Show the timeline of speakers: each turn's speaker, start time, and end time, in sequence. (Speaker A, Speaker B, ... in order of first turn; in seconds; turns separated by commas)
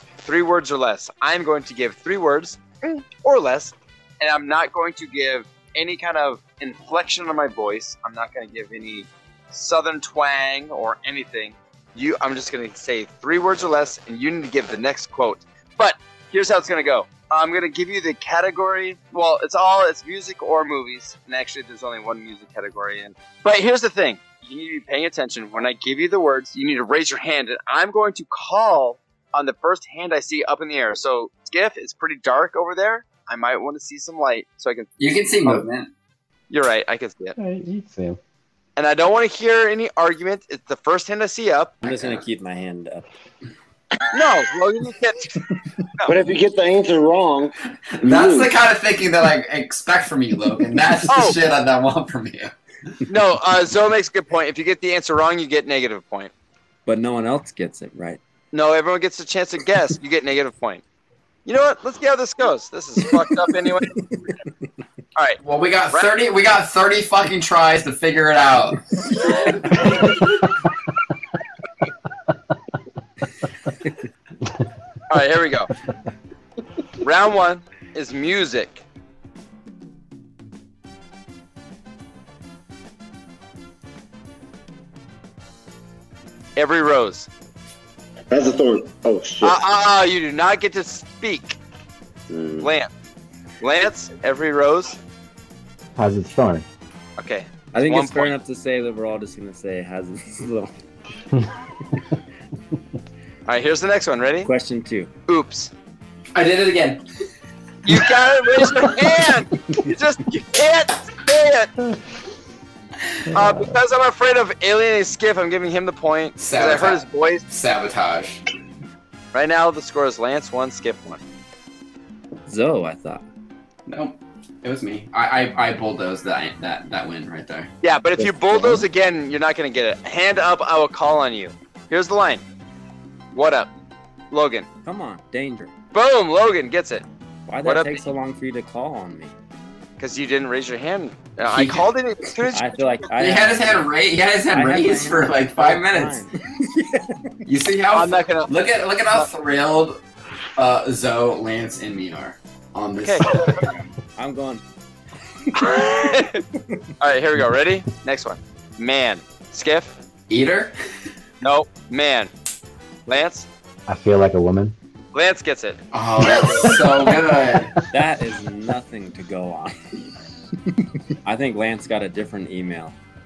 Speaker A: 0.2-34.9, Speaker B: 35.0-35.9, Speaker A: 36.5-37.4, Speaker C: 37.4-38.2, Speaker A: 38.8-41.8, Speaker D: 41.8-43.1, Speaker B: 41.8-42.2, Speaker A: 44.1-45.4, Speaker E: 46.0-48.5, Speaker B: 48.0-52.5, Speaker A: 51.1-51.4, Speaker A: 53.1-56.3, Speaker D: 56.9-58.2, Speaker A: 58.5-60.8, Speaker A: 61.5-64.0, Speaker D: 63.6-64.0, Speaker B: 65.4-68.8, Speaker B: 69.7-70.2, Speaker A: 75.1-75.7, Speaker A: 77.0-78.8, Speaker A: 86.6-87.3, Speaker E: 88.3-89.6, Speaker A: 89.4-91.6, Speaker E: 92.3-92.7, Speaker A: 92.6-92.9, Speaker A: 93.6-95.0, Speaker C: 96.0-96.7, Speaker A: 97.2-98.3, Speaker D: 97.7-100.7, Speaker A: 103.5-104.5, Speaker D: 104.4-105.1, Speaker A: 105.3-105.7, Speaker B: 106.3-107.0, Speaker A: 107.8-111.7, Speaker C: 113.3-113.8, Speaker A: 113.3-117.5, Speaker B: 116.4-118.4, Speaker A: 119.3-121.2, Speaker D: 122.5-123.2, Speaker B: 123.9-127.7, Speaker A: 127.8-132.4, Speaker D: 128.2-128.8, Speaker A: 133.3-133.7, Speaker A: 134.3-134.7, Speaker D: 134.8-135.7, Speaker A: 135.9-137.1, Speaker D: 137.5-139.3, Speaker A: 137.6-138.0, Speaker A: 140.0-143.1, Speaker B: 141.5-141.9, Speaker D: 142.5-143.9, Speaker B: 143.2-146.2, Speaker D: 144.5-147.4, Speaker B: 147.4-150.0, Speaker A: 147.9-148.5, Speaker B: 150.6-153.9, Speaker A: 153.0-153.7, Speaker D: 154.2-154.6, Speaker D: 155.5-155.9, Speaker A: 155.6-156.4, Speaker A: 157.0-160.0, Speaker B: 160.3-160.7, Speaker A: 161.4-162.3, Speaker A: 163.1-163.5, Speaker C: 163.9-164.8, Speaker A: 165.1-165.8, Speaker B: 165.9-167.7, Speaker C: 166.4-167.2, Speaker D: 167.9-169.8, Speaker D: 171.2-173.0